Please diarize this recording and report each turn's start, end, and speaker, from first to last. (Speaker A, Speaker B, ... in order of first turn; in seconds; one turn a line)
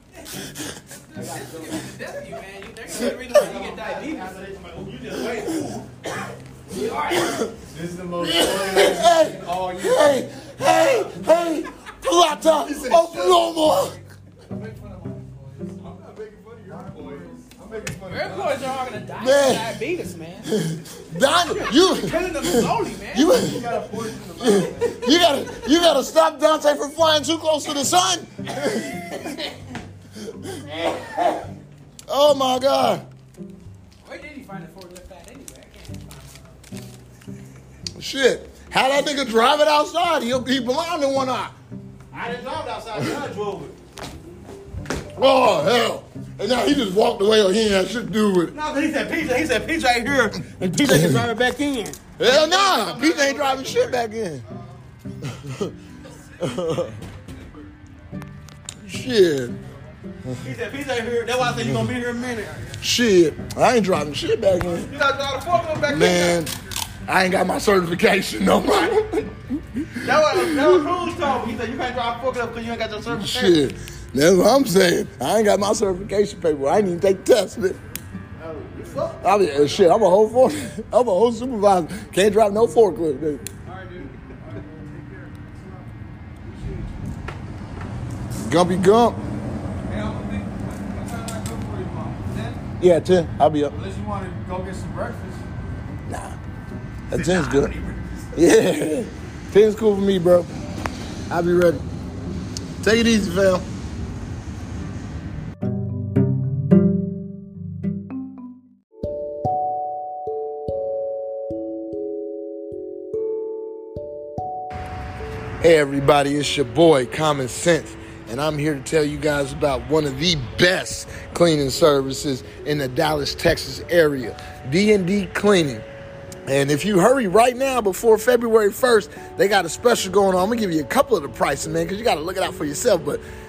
Speaker A: 1.1-4.9
Speaker B: 1.2-1.7
Speaker B: 3.0-4.2
Speaker C: 4.2-5.8
Speaker A: 6.7-7.5
Speaker D: 6.9-7.5
Speaker B: 7.6-10.3
Speaker D: 8.2-14.0
Speaker B: 12.4-13.5
Speaker B: 14.5-18.7
Speaker A: 18.1-20.6
Speaker D: 19.2-19.7
Speaker D: 20.5-23.7
Speaker A: 21.5-23.4
Speaker B: 23.3-25.1
Speaker D: 24.4-29.5
Speaker D: 30.2-31.4
Speaker D: 32.1-33.0
Speaker A: 34.0-36.6
Speaker D: 38.0-41.5
Speaker C: 42.1-43.7
Speaker D: 45.1-48.5
Speaker C: 48.5-50.4
Speaker A: 50.5-52.0
Speaker D: 50.8-51.2
Speaker D: 52.2-54.5
Speaker B: 52.3-53.9
Speaker D: 55.2-55.8
Speaker D: 56.4-57.0
Speaker D: 58.8-59.6
Speaker C: 60.4-62.5
Speaker D: 62.8-64.9
Speaker B: 64.8-66.5
Speaker D: 65.9-66.5
Speaker D: 67.1-70.8
Speaker C: 70.0-73.6
Speaker D: 73.1-77.8
Speaker C: 78.4-79.2
Speaker B: 78.6-80.0
Speaker D: 79.2-83.5
Speaker B: 83.7-86.9
Speaker D: 88.5-89.2
Speaker B: 89.9-92.6
Speaker D: 92.8-93.8
Speaker B: 93.7-95.4
Speaker D: 96.1-96.4
Speaker D: 97.1-97.7
Speaker B: 97.1-98.2
Speaker D: 98.3-100.5
Speaker D: 101.3-101.8
Speaker D: 102.8-103.7
Speaker D: 115.6-125.8
Speaker D: 126.5-133.2